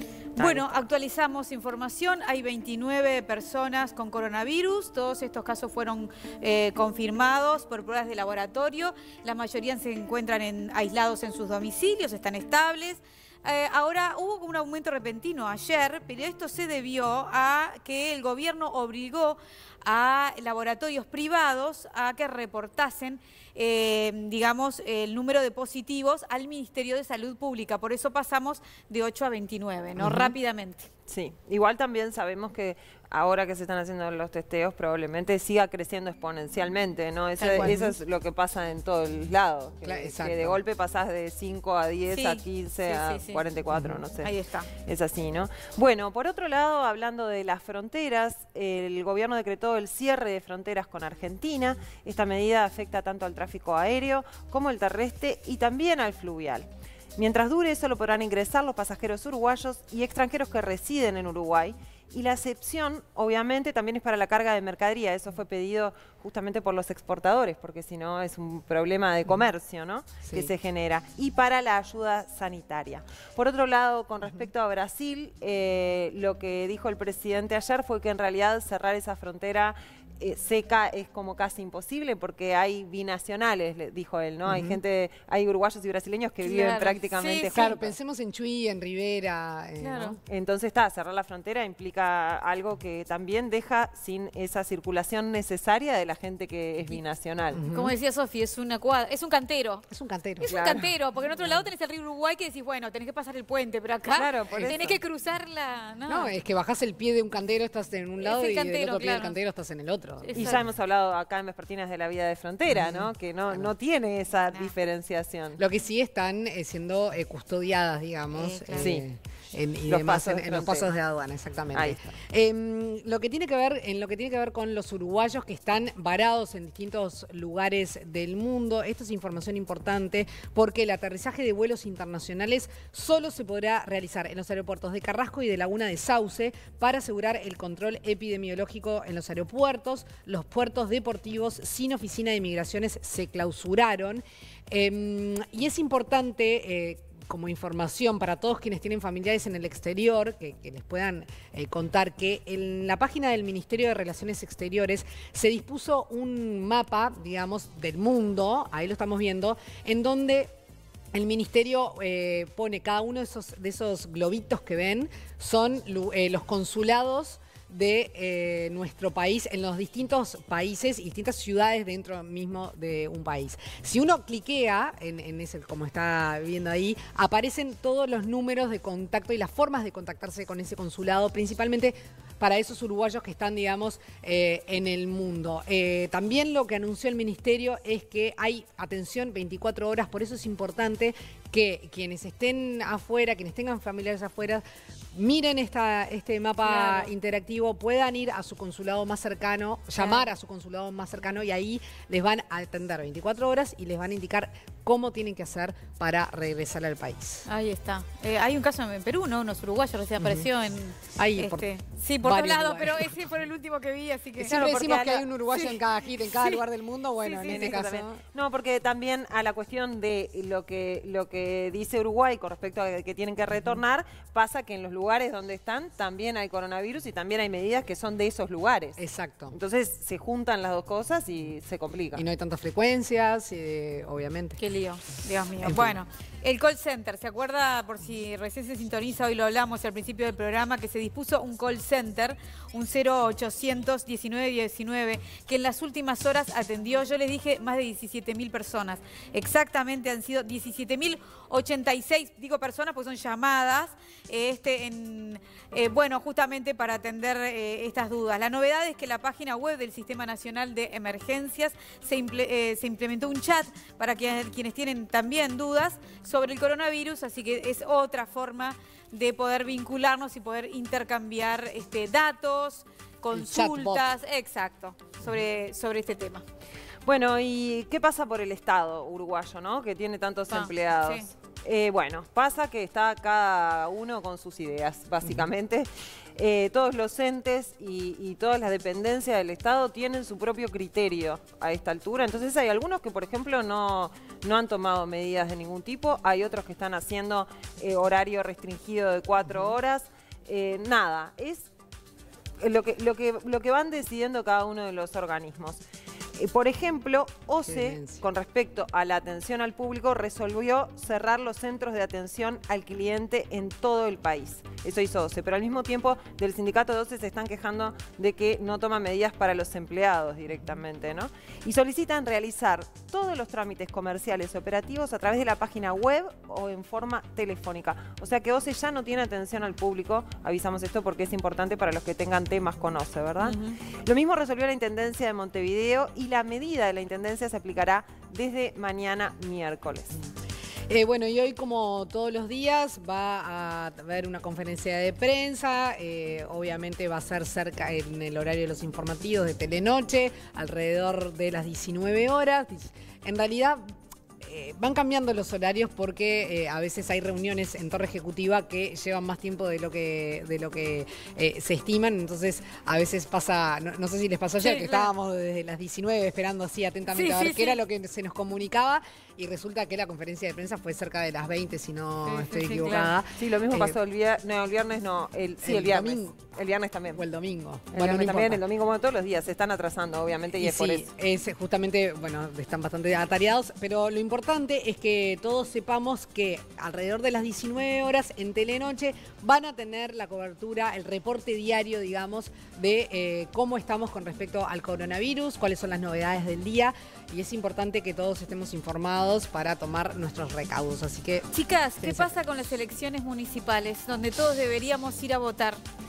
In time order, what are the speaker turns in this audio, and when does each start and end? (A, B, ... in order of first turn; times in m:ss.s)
0:00.4-0:00.6 A
0:00.4-0:30.9 B
0:30.0-0:30.3 C
0:31.1-1:27.9 A
0:37.4-0:37.9 B
0:37.6-0:38.0 C
0:39.8-0:40.6 C
0:42.1-0:43.4 B
0:43.7-0:43.9 C
0:44.2-0:44.7 B
1:10.2-1:10.5 C
1:14.2-1:14.5 C
1:24.4-1:24.8 C
1:26.4-1:27.6 B
1:27.5-1:30.2 C
1:29.8-1:30.2 B
1:30.2-1:37.6 A
1:37.5-1:37.9 C
1:37.7-1:39.8 B
1:39.9-1:40.5 C
1:40.4-1:46.3 B
1:40.4-1:40.9 A
1:41.4-1:41.6 C
1:44.1-1:45.0 A
1:44.5-1:44.8 C
1:46.1-1:50.7 C
1:48.2-1:49.4 B
1:50.2-1:50.6 B
1:50.3-1:55.6 A
1:52.7-1:53.7 C
1:55.6-2:40.5 C
1:58.3-1:59.0 B
1:58.8-1:59.0 A
1:59.8-2:00.9 A
2:01.7-2:02.1 A
2:41.1-3:14.6 C
3:15.1-3:27.5 C
3:16.6-3:17.1 B
3:20.0-3:20.3 B
3:27.5-3:34.7 B
3:30.2-3:30.5 C
3:31.2-3:31.7 C
3:32.2-3:33.3 C
3:34.4-3:38.2 C
3:34.5-3:35.3 A
3:35.5-3:36.6 B
3:37.2-3:37.8 B
3:37.4-3:49.0 A
3:43.5-3:43.8 C
3:49.0-3:49.6 C
3:49.5-3:52.2 A
3:52.1-3:54.6 C
3:54.6-4:36.4 B
3:55.6-3:56.0 C
4:33.3-4:34.0 C
4:37.0-5:01.7 A
4:40.5-4:41.3 B
4:59.4-4:59.8 C
5:02.6-5:05.8 A
5:06.4-5:40.2 A
5:07.7-5:08.2 C
5:33.4-5:33.8 B
5:40.9-6:14.0 C
6:04.6-6:05.1 B
6:07.1-6:07.8 B
6:12.2-6:13.1 B
6:13.3-6:17.2 A
6:15.6-6:16.4 C
6:17.1-6:18.6 C
6:17.9-6:21.1 A
6:20.6-6:42.5 C
6:41.5-6:45.8 B